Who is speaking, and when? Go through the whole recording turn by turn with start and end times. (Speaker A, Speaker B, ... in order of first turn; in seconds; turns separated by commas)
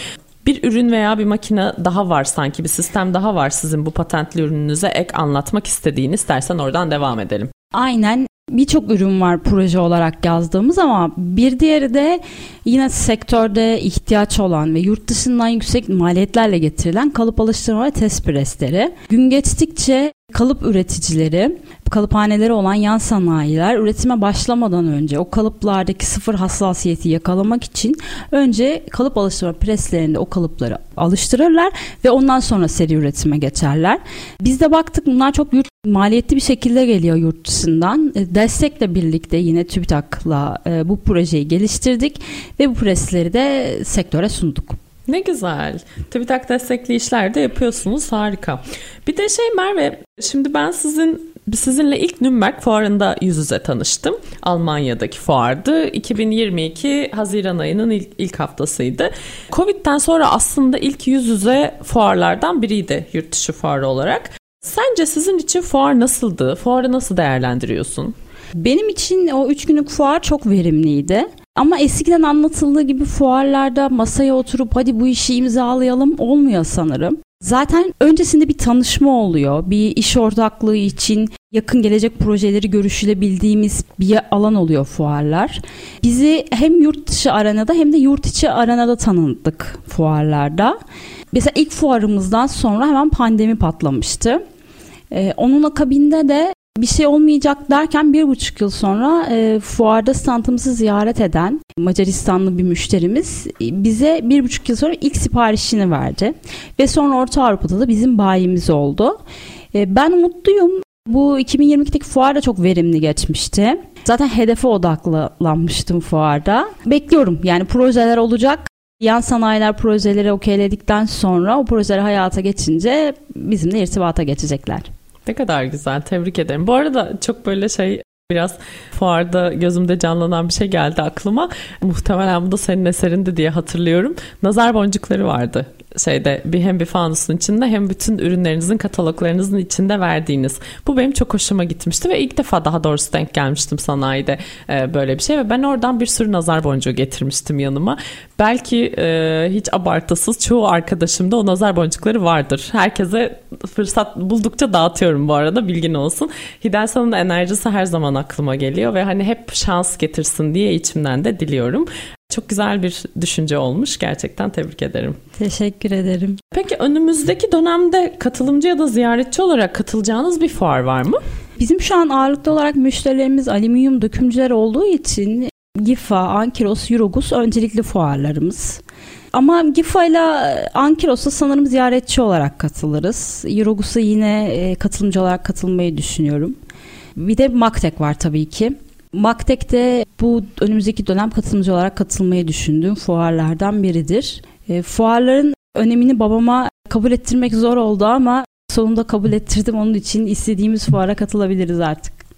Speaker A: 0.4-7.5, Speaker B: 7.7-44.8, Speaker A: 45.1-68.1, Speaker B: 68.6-90.8, Speaker B: 91.3-94.4, Speaker B: 95.1-109.2, Speaker B: 109.7-124.9, Speaker A: 125.2-165.2, Speaker B: 165.4-166.4, Speaker A: 166.5-171.2, Speaker B: 171.6-178.8, Speaker B: 179.3-186.6, Speaker B: 187.2-202.2